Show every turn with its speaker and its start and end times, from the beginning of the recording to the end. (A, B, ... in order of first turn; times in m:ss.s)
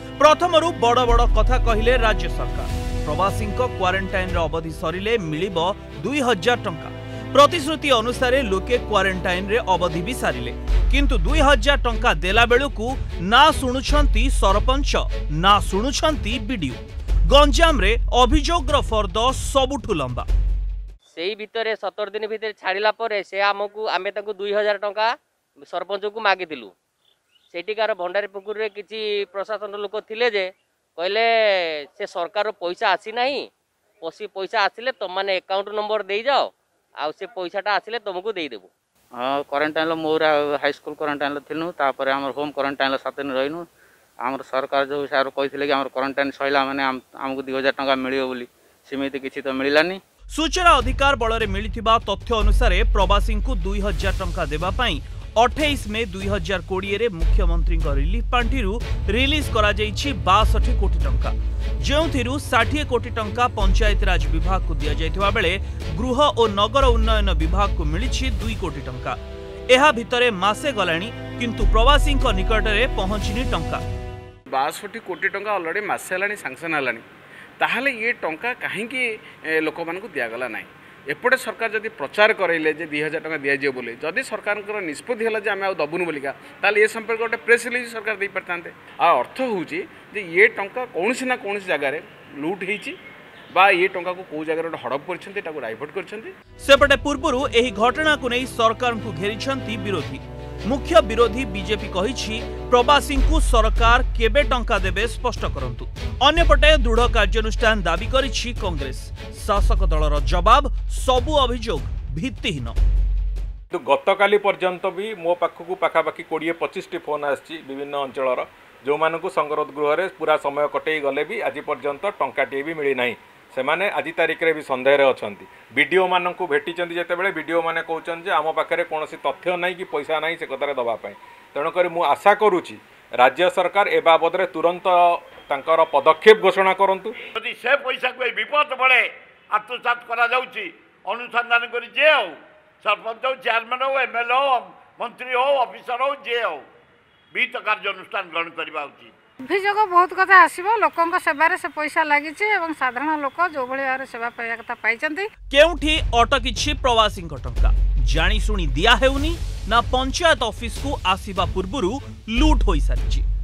0:00.2-0:20.3 A
0:21.2-0:26.7 B
0:27.5-0:31.3 B
0:31.9-0:33.5 B
0:34.0-0:36.5 B
0:37.0-0:38.7 B
0:39.2-0:43.6 C
0:44.2-0:50.0 C
0:50.3-1:09.2 A
1:09.7-1:13.8 A
1:14.5-1:17.0 D
1:17.6-1:33.0 D
1:33.5-1:36.3 D
1:36.6-1:52.8 A
1:53.7-2:17.2 E
2:17.4-2:26.6 F
2:27.3-2:29.1 F
2:29.4-2:35.3 G
2:35.5-2:43.2 A